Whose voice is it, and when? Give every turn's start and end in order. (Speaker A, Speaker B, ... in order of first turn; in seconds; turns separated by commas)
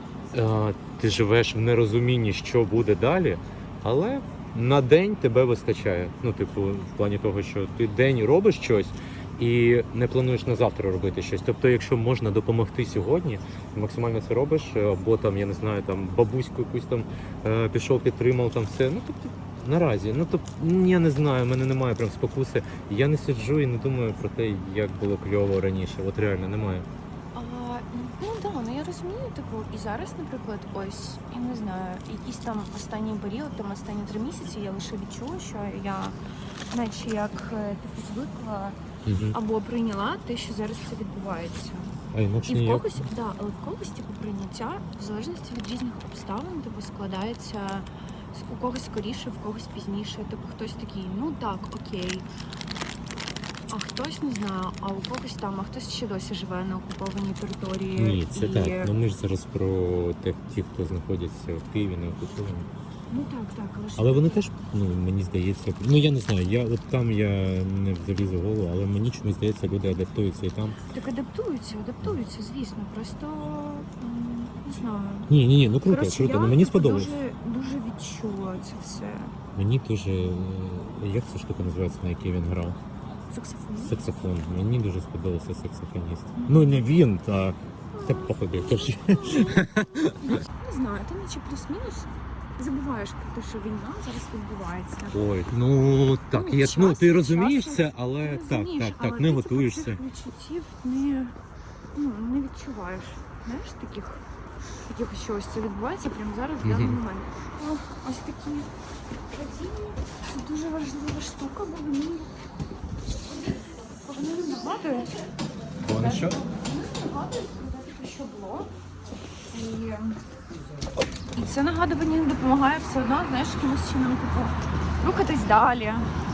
Speaker A: 0.3-26.9, Speaker B: 27.3-36.1, Speaker B: 36.7-38.8, Speaker A: 39.0-39.4, Speaker B: 39.3-41.9, Speaker A: 42.1-42.9, Speaker B: 42.5-52.2, Speaker B: 53.7-58.9, Speaker A: 58.0-62.7, Speaker B: 63.1-64.5, Speaker A: 64.0-70.8, Speaker B: 70.9-75.3, Speaker A: 75.3-77.1, Speaker B: 75.8-79.3, Speaker A: 79.5-82.8, Speaker B: 83.3-84.0, Speaker A: 83.8-90.2, Speaker B: 86.3-86.8, Speaker B: 87.9-89.7, Speaker B: 90.2-95.1, Speaker A: 95.1-100.0, Speaker B: 96.3-101.3, Speaker B: 101.9-104.2, Speaker B: 104.8-108.7, Speaker A: 106.6-107.0, Speaker B: 109.3-112.3, Speaker B: 114.0-115.2, Speaker A: 115.8-116.4, Speaker B: 115.9-118.7, Speaker B: 119.5-120.2, Speaker B: 121.3-126.1